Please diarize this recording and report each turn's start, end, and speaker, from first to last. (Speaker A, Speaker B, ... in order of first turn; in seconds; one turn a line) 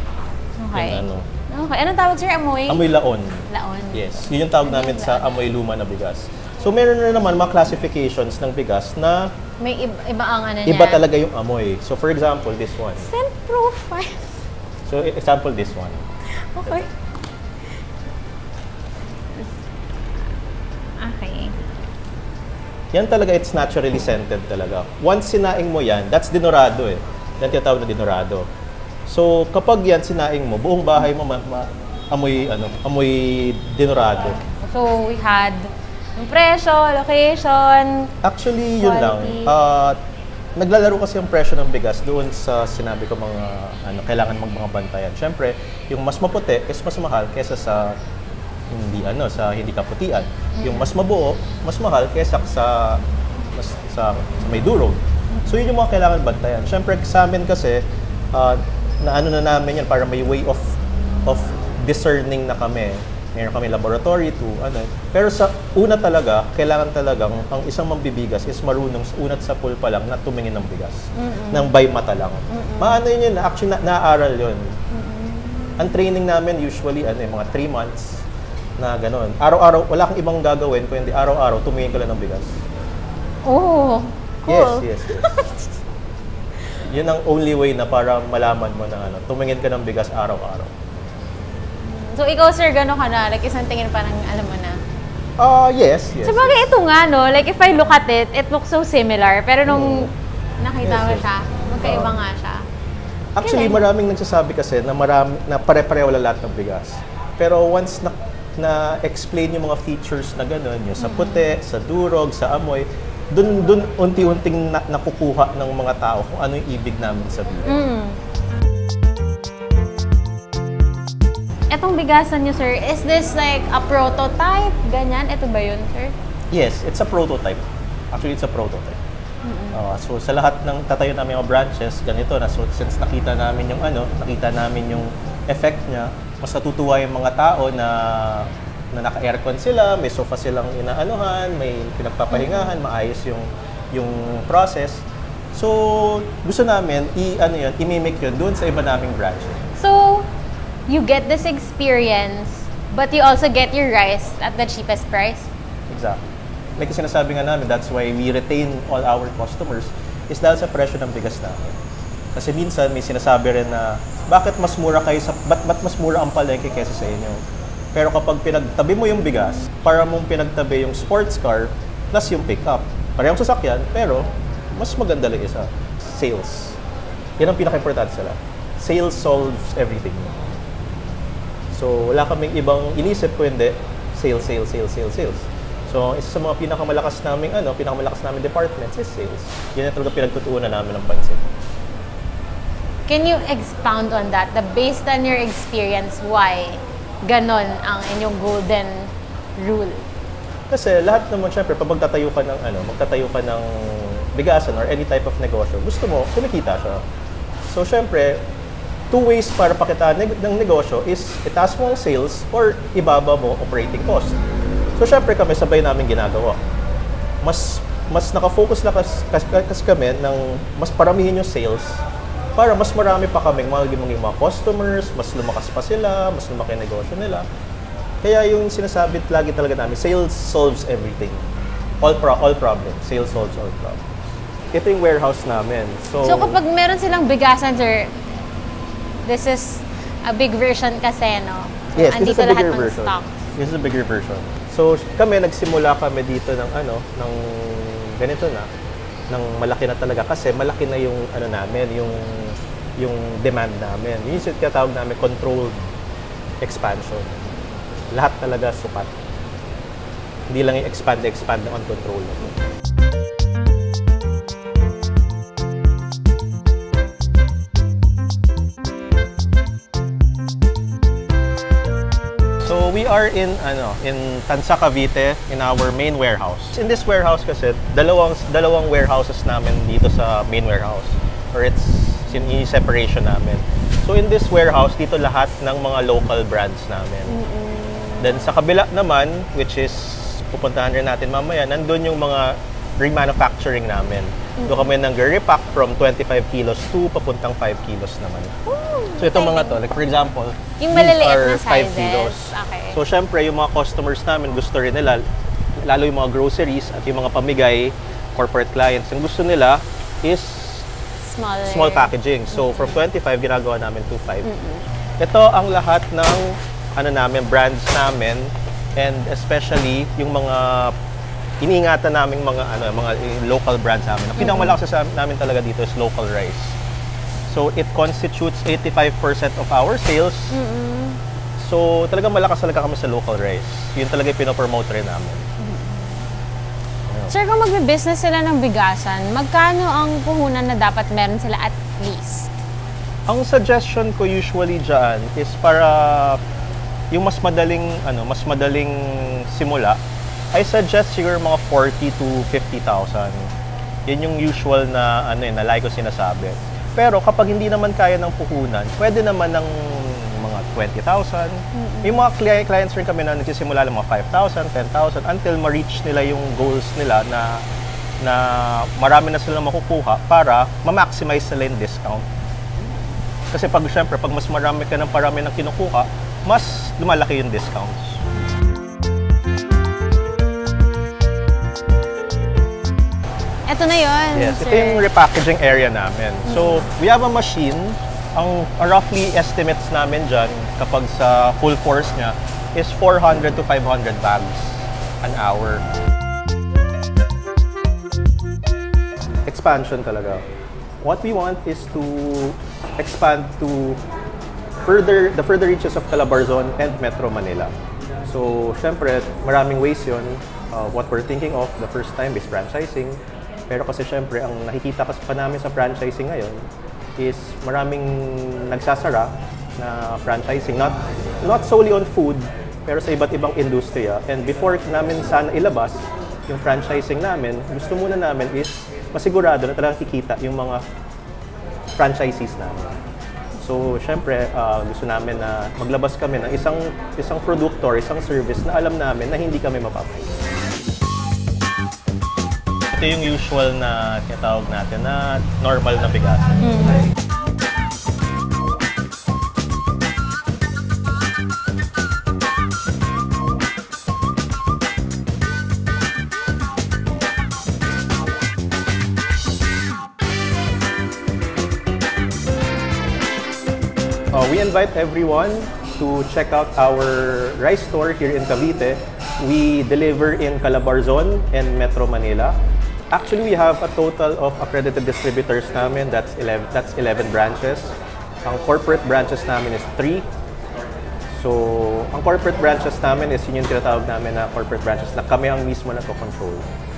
Speaker A: 0.6-2.8
Speaker B: 0.7-1.3
Speaker B: 2.7-9.3
Speaker A: 3.5-5.3
Speaker A: 9.6-11.1
Speaker B: 10.7-13.1
Speaker A: 13.0-14.4
Speaker B: 14.8-16.0
Speaker A: 16.3-16.9
Speaker A: 21.0-21.6
Speaker B: 22.9-28.5
Speaker B: 29.1-34.4
Speaker A: 34.6-38.1
Speaker B: 38.2-40.0
Speaker A: 38.8-39.5
Speaker B: 40.6-48.0
Speaker B: 48.7-74.8
Speaker A: 50.6-50.9
Speaker A: 71.2-71.7
Speaker A: 72.5-73.0
Speaker A: 74.9-75.9
Speaker B: 75.8-78.2
Speaker B: 78.8-82.6
Speaker A: 83.4-85.7
Speaker B: 84.5-85.5
Speaker B: 86.8-90.7
Speaker A: 91.8-94.8
Speaker B: 95.4-96.7
Speaker A: 96.2-102.7
Speaker B: 99.7-100.1
Speaker B: 100.8-101.2
Speaker B: 101.8-102.1
Speaker B: 103.3-117.8
Speaker A: 103.4-103.9
Speaker A: 111.0-111.5
Speaker A: 117.7-118.2
Speaker A: 121.7-126.1
Speaker B: 126.5-129.0
Speaker A: 129.4-129.8
Speaker B: 129.7-149.7
Speaker A: 142.3-142.8
Speaker A: 149.8-150.3
Speaker A: 150.9-155.5
Speaker B: 155.9-156.2
Speaker B: 156.8-161.8
Speaker B: 162.3-167.4
Speaker B: 167.9-176.8
Speaker B: 177.4-180.5
Speaker B: 181.7-191.5
Speaker A: 193.1-200.1
Speaker B: 200.7-207.0
Speaker B: 207.7-208.5
Speaker B: 209.1-214.4
Speaker B: 214.9-216.6
Speaker B: 217.4-222.0
Speaker B: 222.6-227.4
Speaker B: 228.2-231.4
Speaker B: 232.0-236.6
Speaker A: 236.2-238.2
Speaker A: 239.2-243.4
Speaker B: 241.9-248.7
Speaker B: 249.3-255.8
Speaker B: 256.6-257.6
Speaker B: 258.1-259.1
Speaker B: 260.5-262.5
Speaker B: 272.6-287.4
Speaker A: 287.3-288.5
Speaker B: 288.2-298.6
Speaker A: 294.6-294.9
Speaker A: 298.6-299.8
Speaker B: 299.2-305.2
Speaker A: 300.8-303.0
Speaker B: 305.8-310.9
Speaker A: 311.2-313.0
Speaker B: 311.6-314.5
Speaker A: 314.4-314.8
Speaker B: 315.2-320.9
Speaker B: 321.6-326.8
Speaker A: 324.4-324.7
Speaker B: 327.5-330.6
Speaker A: 330.5-331.2
Speaker B: 331.6-335.5
Speaker A: 335.6-336.2
Speaker B: 337.1-337.3
Speaker A: 337.3-342.5
Speaker B: 343.3-346.4
Speaker B: 347.1-350.0
Speaker B: 350.5-353.5
Speaker B: 354.1-367.6
Speaker A: 361.7-362.2
Speaker B: 368.2-372.2
Speaker B: 373.5-378.2
Speaker A: 383.7-385.1
Speaker B: 384.3-395.8
Speaker A: 386.5-386.8
Speaker B: 399.5-400.4
Speaker B: 401.0-404.0
Speaker B: 404.8-407.7
Speaker B: 408.2-416.6
Speaker B: 417.2-430.8
Speaker B: 431.9-433.0
Speaker B: 433.6-440.3
Speaker B: 442.9-446.7
Speaker A: 446.6-447.0
Speaker B: 464.3-472.6
Speaker B: 473.1-480.2
Speaker B: 481.3-486.7